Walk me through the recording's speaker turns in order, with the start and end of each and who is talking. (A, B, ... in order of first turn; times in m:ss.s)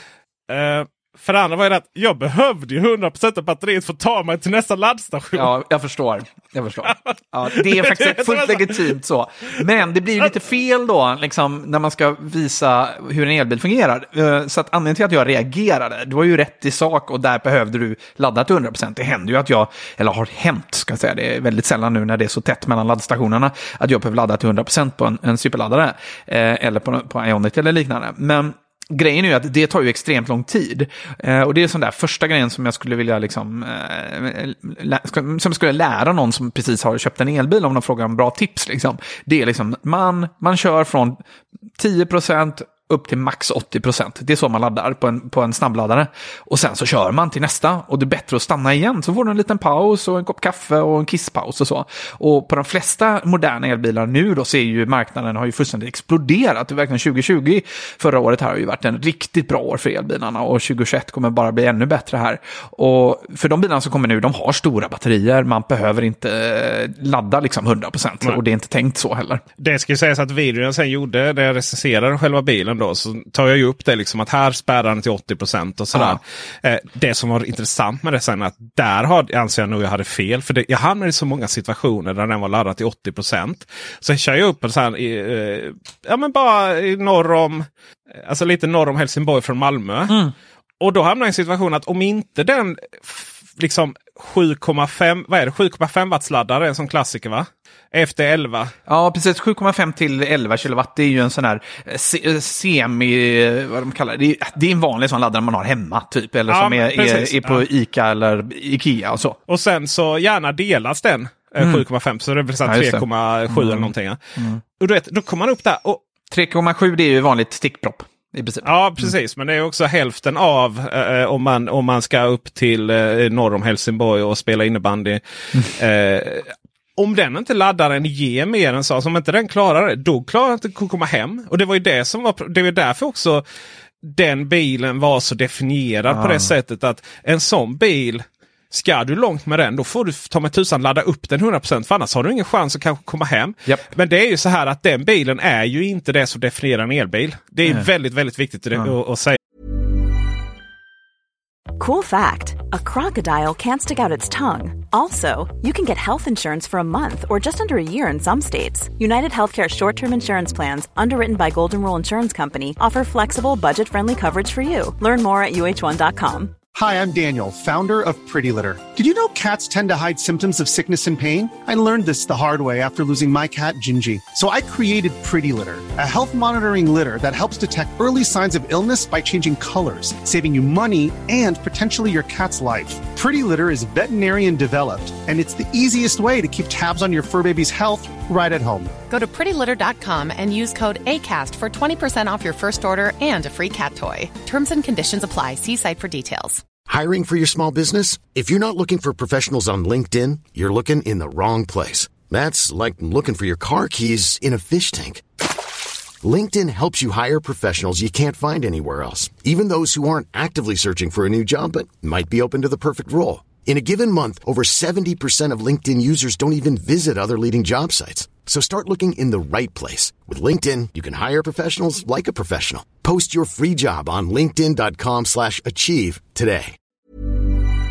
0:00.5-0:05.5 A
0:05.3-0:41.2 B
0:06.8-0:08.9 A
0:41.8-1:09.4 B
1:09.6-1:30.2 A
1:15.9-1:16.2 B
1:30.8-1:38.7 A
1:38.9-1:49.4 B
1:46.5-1:47.7 A
1:49.5-1:54.2 A
1:51.6-1:51.8 B
1:52.6-1:54.6 B
1:54.8-1:56.0 A
1:56.3-1:59.1 B
1:58.6-2:13.4 A
2:14.0-2:29.4 A
2:16.1-2:16.5 B
2:31.8-2:46.5 C
2:46.7-3:08.9 D
3:09.1-3:16.6 E
3:16.9-3:25.2 F
3:26.2-3:46.8 F